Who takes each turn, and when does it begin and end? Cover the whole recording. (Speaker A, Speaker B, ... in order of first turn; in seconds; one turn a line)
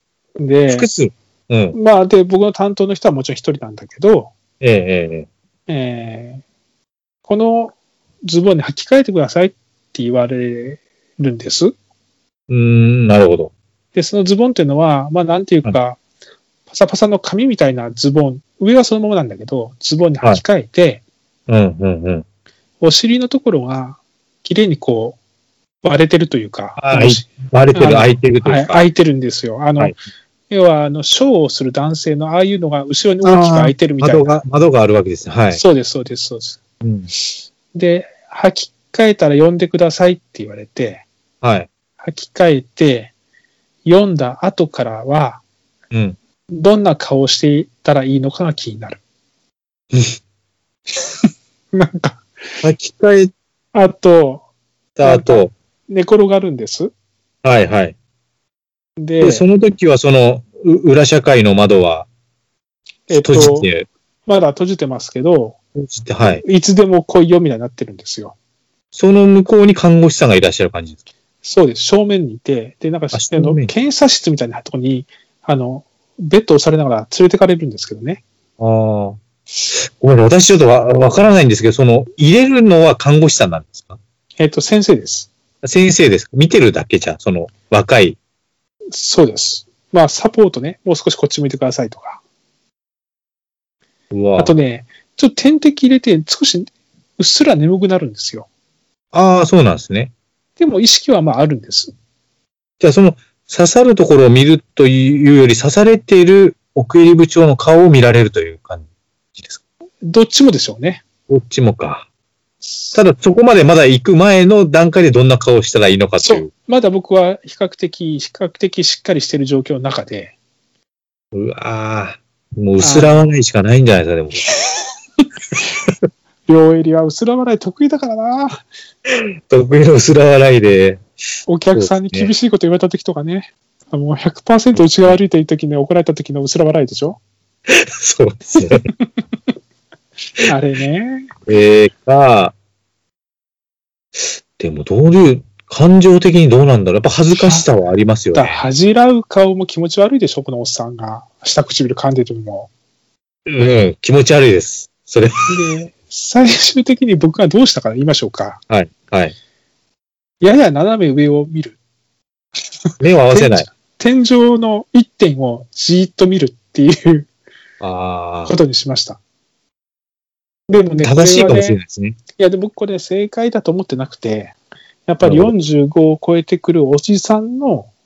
Speaker A: 0.4-0.9
Speaker B: 0.7-1.8
Speaker A: 1.7-4.3
Speaker B: 4.6-5.3
Speaker A: 5.7-6.4
Speaker A: 7.2-11.7
Speaker B: 12.5-13.5
Speaker A: 13.9-16.0
Speaker A: 16.7-21.0
Speaker B: 21.5-22.2
Speaker A: 22.8-25.2
Speaker A: 25.8-30.0
Speaker B: 26.8-28.9
Speaker A: 30.5-34.4
Speaker B: 33.2-35.6
Speaker A: 35.5-36.6
Speaker B: 36.8-37.1
Speaker A: 37.7-41.0
Speaker B: 41.4-41.7
Speaker A: 42.0-43.1
Speaker A: 43.9-45.4
Speaker B: 45.9-46.2
Speaker A: 46.5-49.0
Speaker A: 51.7-52.2
Speaker B: 52.6-53.3
Speaker A: 53.7-54.5
Speaker B: 55.0-55.5
Speaker A: 55.0-56.9
Speaker B: 57.4-58.0
Speaker A: 59.0-59.5
Speaker B: 59.2-62.1
Speaker A: 63.1-63.7
Speaker B: 63.1-63.9
Speaker A: 64.3-65.6
Speaker B: 65.8-66.4
Speaker A: 66.4-68.4
Speaker B: 68.9-71.0
Speaker A: 71.4-78.2
Speaker B: 73.1-73.7
Speaker B: 78.6-79.2
Speaker B: 79.7-84.0
Speaker A: 84.4-85.3
Speaker B: 85.6-88.2
Speaker A: 88.9-92.2
Speaker B: 94.1-94.5
Speaker A: 94.4-98.5
Speaker B: 99.1-100.1
Speaker A: 100.6-101.9
Speaker B: 102.8-109.6
Speaker A: 110.0-111.0
Speaker B: 111.3-112.1
Speaker A: 112.6-113.0
Speaker B: 112.9-116.5
Speaker A: 116.2-120.3
Speaker B: 121.3-124.4
Speaker A: 122.8-123.3
Speaker A: 126.5-128.7
Speaker B: 129.1-131.0
Speaker A: 131.5-137.2
Speaker B: 131.7-132.3
Speaker B: 134.7-135.2
Speaker B: 137.7-138.9
Speaker A: 140.4-141.3
Speaker B: 141.5-142.5
Speaker B: 144.2-148.6
Speaker A: 147.4-147.7
Speaker A: 148.3-152.7
Speaker B: 153.5-155.6
Speaker A: 155.5-158.6
Speaker B: 158.7-159.3
Speaker A: 160.4-161.8
Speaker B: 163.0-163.7
Speaker A: 163.3-167.3
Speaker B: 167.8-168.6
Speaker A: 168.5-169.2
Speaker A: 170.7-171.8
Speaker B: 171.0-172.2
Speaker A: 172.4-174.6
Speaker A: 175.1-177.9
Speaker B: 175.2-175.6